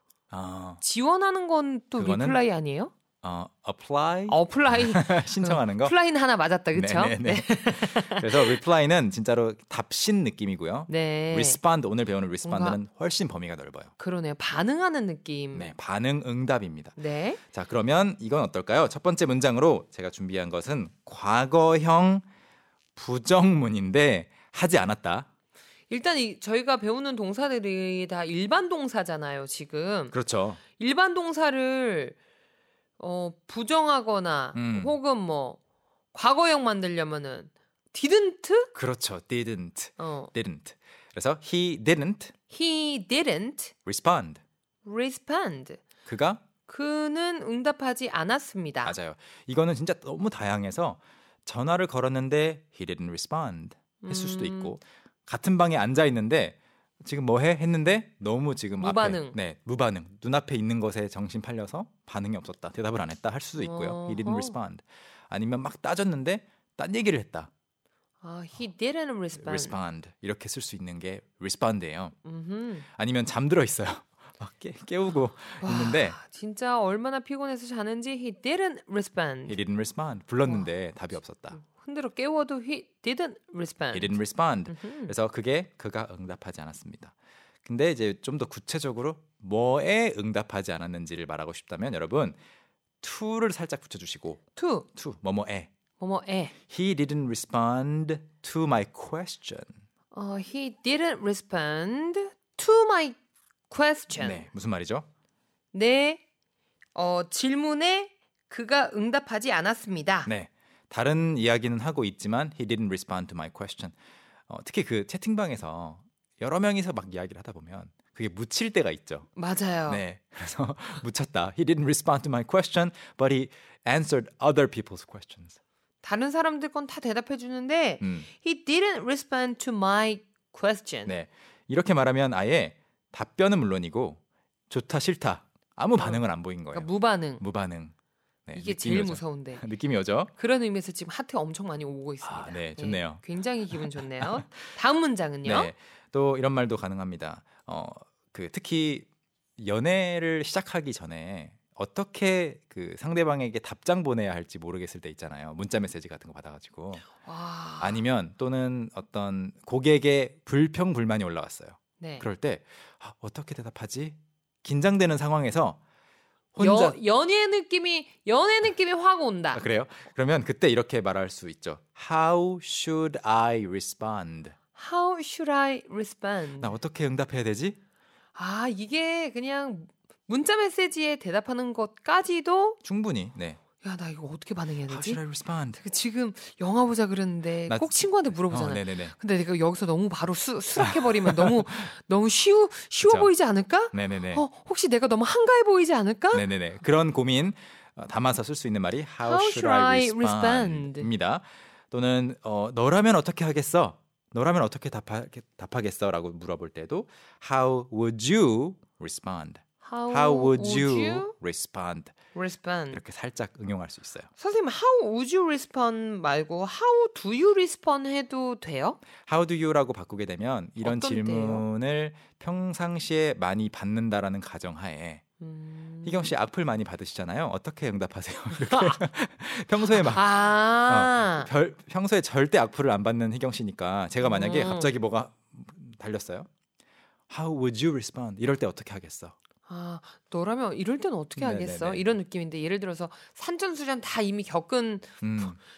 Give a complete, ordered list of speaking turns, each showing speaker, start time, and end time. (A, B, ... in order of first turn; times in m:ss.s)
0:00.3-0:00.8 A
0:00.8-0:02.9 B
0:02.0-0:02.4 A
0:03.2-0:06.0 A
0:04.3-0:08.6 B
0:06.7-0:13.9 A
0:10.9-0:11.6 B
0:12.4-0:12.8 B
0:14.0-0:15.7 B
0:15.5-0:17.0 A
0:17.0-0:17.4 B
0:17.5-0:22.2 A
0:22.9-0:25.3 A
0:25.9-0:30.2 B
0:30.1-0:30.6 A
0:30.7-0:32.2 B
0:33.0-0:35.6 B
0:34.5-0:35.0 A
0:36.1-0:38.7 B
0:38.7-0:42.3 A
0:40.0-0:40.3 B
0:42.5-0:43.7 B
0:43.8-0:44.4 A
0:44.8-0:45.8 B
0:46.0-0:46.4 A
0:46.6-0:49.0 B
0:48.8-1:07.5 A
0:54.0-0:54.7 B
0:58.8-0:59.4 B
1:03.6-1:04.6 B
1:08.2-1:09.8 B
1:09.4-1:12.1 A
1:12.2-1:12.8 B
1:12.9-1:16.2 A
1:15.4-1:19.6 B
1:19.5-1:21.6 A
1:20.4-1:20.7 B
1:21.6-1:25.1 B
1:23.9-1:27.1 A
1:27.6-1:32.4 A
1:33.0-1:34.4 A
1:34.6-1:34.9 B
1:34.9-1:35.7 A
1:36.0-1:36.5 B
1:36.7-1:39.8 A
1:40.1-1:43.2 B
1:43.7-1:44.4 B
1:44.1-1:45.0 A
1:45.7-1:46.2 B
1:46.9-1:50.3 B
1:50.2-1:53.9 A
1:54.5-1:59.3 A
1:59.4-2:00.0 B
1:59.9-2:05.6 A
2:06.0-2:11.1 B
2:08.0-2:08.3 A
2:11.0-2:17.9 A
2:16.0-2:17.4 B
2:18.5-2:20.3 A
2:18.5-2:19.6 B
2:20.3-2:25.7 B
2:22.2-2:23.2 A
2:23.7-2:24.4 A
2:25.4-2:29.0 A
2:29.6-2:37.1 A
2:37.2-2:38.0 B
2:37.8-2:45.8 A
2:42.0-2:42.2 B
2:46.5-2:47.0 A
2:46.6-2:49.6 B
2:49.5-2:54.5 A
2:54.8-2:56.7 B
2:56.6-2:57.8 A
2:58.3-3:02.8 B
3:02.8-3:03.6 A
3:03.8-3:05.2 B
3:04.8-3:05.8 A
3:05.8-3:16.4 B
3:07.7-3:09.2 A
3:10.8-3:11.6 A
3:13.0-3:13.3 A
3:13.9-3:14.4 A
3:16.3-3:32.1 A
3:19.2-3:21.1 B
3:29.8-3:31.3 B
3:32.3-3:33.0 B
3:32.9-3:34.3 A
3:34.4-3:39.0 B
3:39.2-3:45.2 A
3:40.8-3:41.6 B
3:45.4-3:46.3 B
3:46.0-3:56.5 A
3:48.6-3:49.0 B
3:49.9-3:51.5 B
3:54.2-3:54.9 B
3:57.3-3:59.3 A
3:59.6-4:05.2 B
4:01.4-4:02.2 A
4:05.2-4:05.6 A